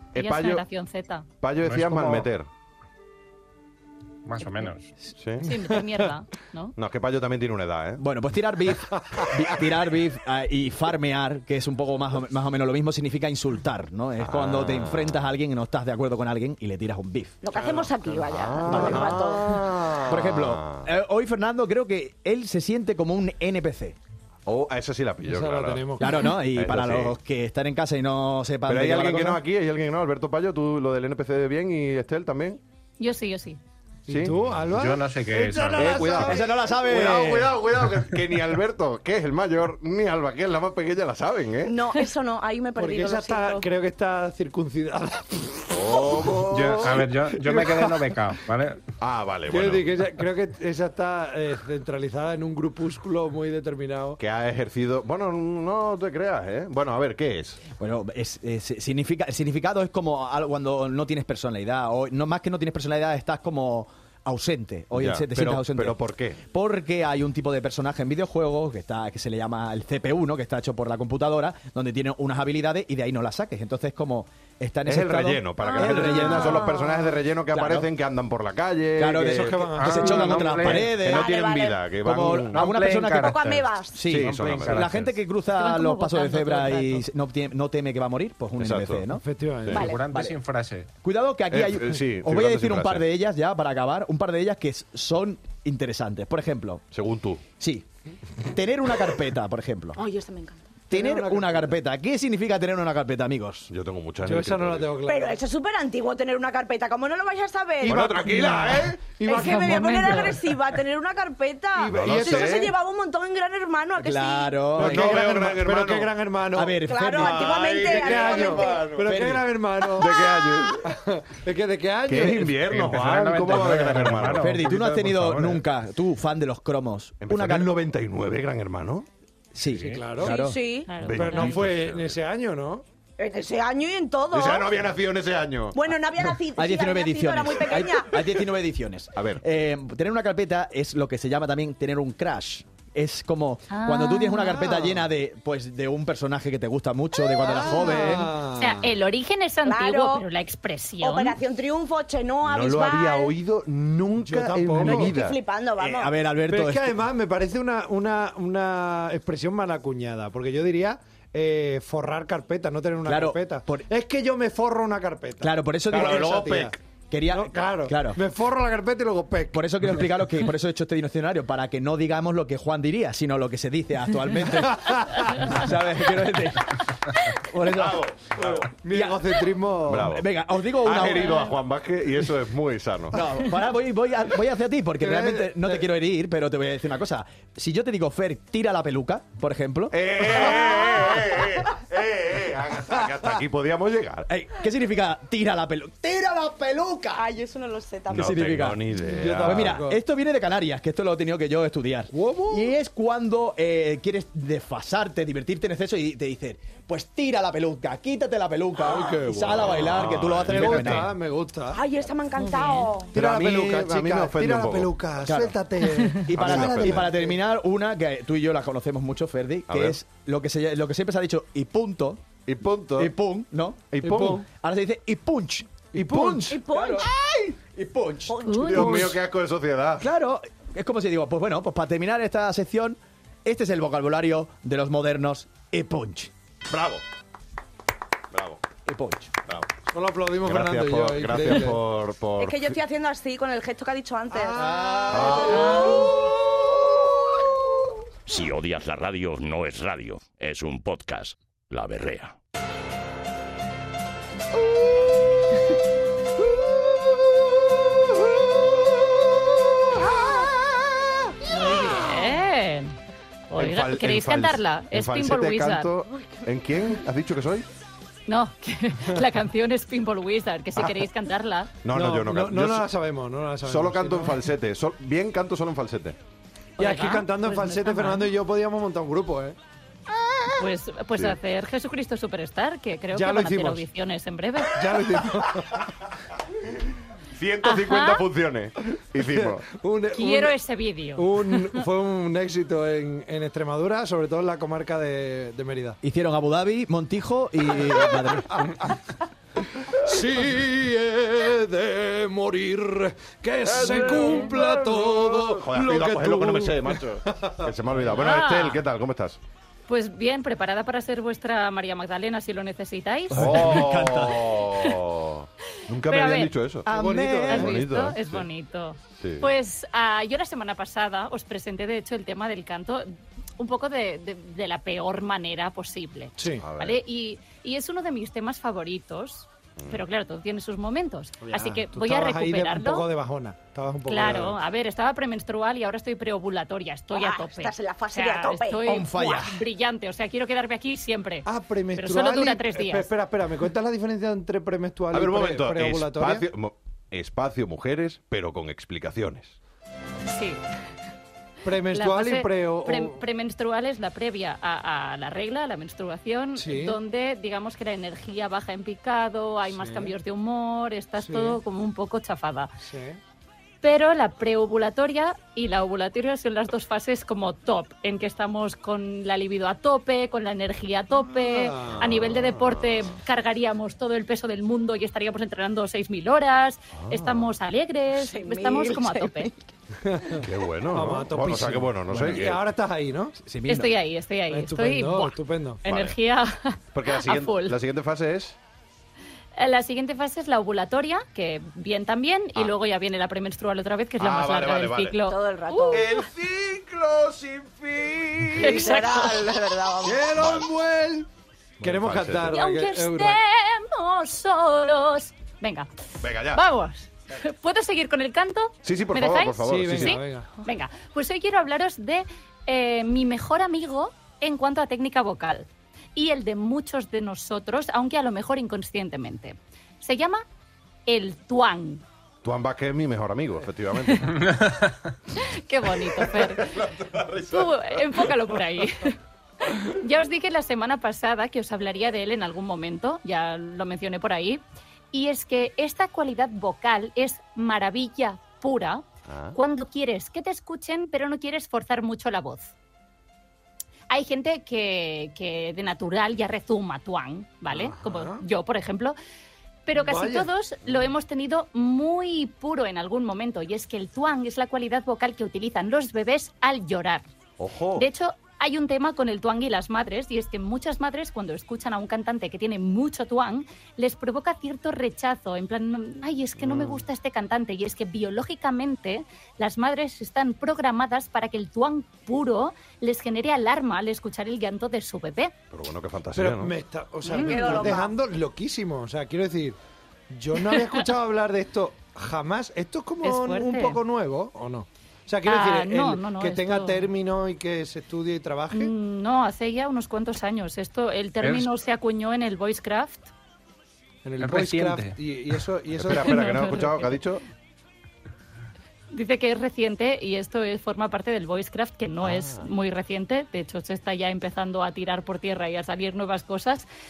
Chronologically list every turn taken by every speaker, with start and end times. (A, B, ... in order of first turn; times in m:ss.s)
0:00.1-0:00.6 A
0:00.2-0:01.2 B
0:01.4-0:02.5 A
0:01.6-0:02.3 C
0:04.2-0:04.9 C
0:05.2-0:05.4 A
0:05.4-0:06.7 B
0:06.8-0:08.0 A
0:08.0-0:17.4 D
0:14.2-0:15.2 A
0:17.4-0:19.8 E
0:17.5-0:18.2 F
0:18.2-0:20.9 A
0:18.7-0:19.2 D
0:20.0-0:24.0 D
0:24.4-0:27.2 A
0:25.2-0:26.2 F
0:26.0-0:29.4 D
0:28.7-0:32.6 A
0:33.0-0:33.6 B
0:34.1-0:36.6 F
0:34.1-0:34.5 A
0:34.7-0:36.0 C
0:35.7-0:41.8 A
0:36.1-0:37.6 D
0:41.6-0:43.7 E
0:42.8-0:46.4 F
0:45.7-0:47.1 A
0:46.5-0:48.8 C
0:47.4-0:47.8 F
0:49.0-0:49.8 A
0:49.5-0:54.2 F
0:54.2-0:57.7 A
0:57.7-1:16.8 D
1:04.9-1:06.4 A
1:14.9-1:19.6 A
1:15.7-1:17.1 E
1:17.5-1:17.9 D
1:19.0-1:21.3 D
1:19.1-1:20.7 F
1:19.8-1:21.0 C
1:20.6-1:22.7 A
1:21.0-1:21.9 E
1:22.0-1:29.2 D
1:22.2-1:25.1 C
1:23.2-1:24.1 E
1:24.0-1:24.9 A
1:25.5-1:27.0 B
1:28.6-1:29.0 A
1:29.1-1:29.8 F
1:29.7-1:30.0 E
1:29.7-1:30.9 C
1:30.0-1:30.4 D
1:30.9-1:36.8 D
1:31.5-1:33.0 A
1:36.9-1:37.4 A
1:37.6-1:37.8 D
1:38.4-1:40.0 D
1:40.0-1:40.7 E
1:40.9-1:43.7 D
1:40.9-1:41.7 F
1:43.7-1:44.9 A
1:44.2-1:45.4 F
1:45.0-1:48.0 E
1:47.8-1:49.1 A
1:47.8-1:50.3 F
1:49.2-1:54.7 E
1:49.3-1:50.4 B
1:51.8-1:52.7 F
1:51.9-1:52.7 A
1:54.0-1:55.2 D
1:54.7-1:56.1 A
1:54.7-1:56.8 F
1:56.5-1:57.8 D
1:56.8-1:58.9 E
1:57.2-2:00.9 A
1:57.8-2:00.2 F
1:59.0-1:59.4 D
2:00.8-2:02.5 F
2:02.0-2:04.6 A
2:02.6-2:05.6 C
2:04.3-2:07.7 D
2:07.2-2:09.1 A
2:09.5-2:10.6 D
2:09.7-2:10.0 C
2:09.9-2:10.4 F
2:10.3-2:10.9 E
2:10.8-2:11.6 B
2:11.0-2:12.2 A
2:11.0-2:12.8 F
2:13.2-2:14.8 E
2:14.3-2:15.9 A
2:15.7-2:18.3 E
2:16.4-2:28.3 D
2:19.1-2:19.4 A
2:23.7-2:24.6 B
2:24.5-2:25.0 F
2:27.2-2:28.2 E
2:27.4-2:28.9 F
2:28.6-2:31.4 B
2:29.6-2:30.2 E
2:31.0-2:33.4 E
2:32.4-2:35.4 A
2:34.2-2:35.1 F
2:34.9-2:36.1 E
2:35.8-2:37.0 D
2:36.5-2:46.8 F
2:43.0-2:43.9 D
2:45.4-2:48.2 D
2:45.9-2:46.7 A
2:47.3-2:49.6 F
2:49.5-2:58.1 D
2:54.7-2:55.3 F
2:57.7-2:58.7 A
2:58.4-3:00.1 F
2:58.9-2:59.3 D
2:59.9-3:00.2 A
2:59.9-3:01.5 D
3:00.8-3:03.2 A
3:03.1-3:10.2 D
3:05.0-3:05.8 F
3:09.9-3:14.3 A
3:14.3-3:17.3 D
3:17.1-3:18.4 E
3:18.1-3:31.1 D
3:18.1-3:19.8 A
3:19.0-3:20.0 F
3:22.1-3:22.7 F
3:29.2-3:31.1 A
3:30.5-3:31.8 F
3:31.7-3:33.1 E
3:32.4-3:32.9 B
3:33.1-3:34.9 A
3:33.2-3:37.4 F
3:35.2-3:35.5 D
3:36.2-3:42.2 D
3:36.3-3:37.1 A
3:39.7-3:40.0 A
3:42.4-3:43.1 A
3:43.0-3:49.1 D
3:43.9-3:44.4 A
3:44.0-3:44.4 F
3:45.9-3:46.5 F
3:46.4-3:47.1 E
3:48.3-3:49.0 E
3:48.4-3:49.1 B
3:48.6-3:50.1 A
3:50.0-3:56.3 D
3:56.7-3:57.0 A
3:58.3-3:58.6 A
3:58.8-3:59.3 D
3:59.9-4:01.8 F
4:00.4-4:02.8 A
4:02.4-4:04.8 E
4:04.5-4:07.0 D
4:05.1-4:06.0 A
4:05.5-4:06.0 B
4:08.2-4:12.3 G
4:21.5-4:22.9 B
4:23.5-4:25.9 B
4:23.5-4:27.6 A
4:28.3-4:31.7 B
4:31.8-4:32.9 A
4:31.9-4:34.4 F
4:33.6-4:36.2 A
4:36.8-4:38.3 B
4:36.8-4:39.6 F
4:40.2-4:40.5 A
4:40.6-4:44.8 B
4:43.1-4:43.8 F
4:44.7-4:45.9 F
4:47.3-4:49.6 A
4:47.6-4:48.2 B
4:49.4-4:50.6 F
4:50.1-4:51.8 B
4:51.2-4:56.0 F
4:56.0-4:58.7 D
4:58.5-4:58.9 F
4:59.8-5:07.7 F
5:03.6-5:09.4 A
5:08.1-5:08.8 B
5:09.9-5:13.8 B
5:13.3-5:14.6 D
5:13.3-5:16.9 A
5:16.0-5:16.5 B
5:16.8-5:17.9 D
5:16.9-5:17.7 F
5:17.5-5:33.1 B
5:17.5-5:18.5 A
5:19.2-5:19.5 A
5:26.4-5:26.6 F
5:26.6-5:27.0 A
5:31.4-5:34.5 F
5:34.1-5:43.1 B
5:34.2-5:34.6 A
5:37.1-5:39.1 E
5:38.8-5:39.6 D
5:41.4-5:46.5 F
5:45.1-5:49.6 A
5:50.3-5:50.6 B
5:51.6-5:53.2 F
5:51.9-6:02.7 B
5:56.6-5:57.0 F
5:59.7-6:00.1 F
6:01.2-6:01.6 F
6:02.8-6:03.2 F
6:03.8-6:19.5 B
6:11.3-6:12.1 F
6:12.0-6:13.1 A
6:17.0-6:17.5 A
6:18.1-6:19.7 E
6:20.0-6:23.4 F
6:20.4-6:22.6 A
6:22.1-6:22.5 D
6:23.4-6:23.9 D
6:23.7-6:27.8 B
6:24.5-6:25.8 F
6:25.8-6:26.2 A
6:26.9-6:28.6 A
6:29.6-6:36.2 B
6:34.2-6:35.2 A
6:35.2-6:36.1 E
6:35.9-6:38.8 A
6:38.6-6:40.3 E
6:38.6-6:39.5 B
6:40.0-6:41.3 F
6:40.3-6:40.7 A
6:41.8-6:42.6 A
6:41.8-6:43.4 F
6:42.5-6:45.9 B
6:46.2-6:46.6 A
6:46.5-7:00.4 B
6:48.8-6:50.2 A
6:49.6-6:50.5 F
7:01.1-7:02.0 B
7:02.4-7:04.6 A
7:05.3-7:06.9 B
7:06.0-7:08.6 A
7:07.4-7:22.7 B
7:19.3-7:19.6 A
7:24.1-7:29.2 B
7:27.7-7:28.4 F
7:29.8-7:37.2 B
7:29.9-7:30.5 F
7:37.6-7:38.1 A
7:38.0-7:55.5 B
7:46.6-7:47.0 A
7:55.7-7:56.7 A
7:56.3-7:59.8 F
7:57.2-7:57.9 B
7:57.3-7:58.1 E
8:00.3-8:08.9 F
8:00.7-8:01.0 B
8:03.2-8:04.0 B
8:05.4-8:07.1 B
8:08.7-8:13.3 B
8:11.4-8:11.7 C
8:14.2-8:16.6 F
8:14.4-8:15.2 C
8:15.9-8:17.4 A
8:16.1-8:17.2 B
8:19.1-8:26.9 B
8:22.2-8:22.7 A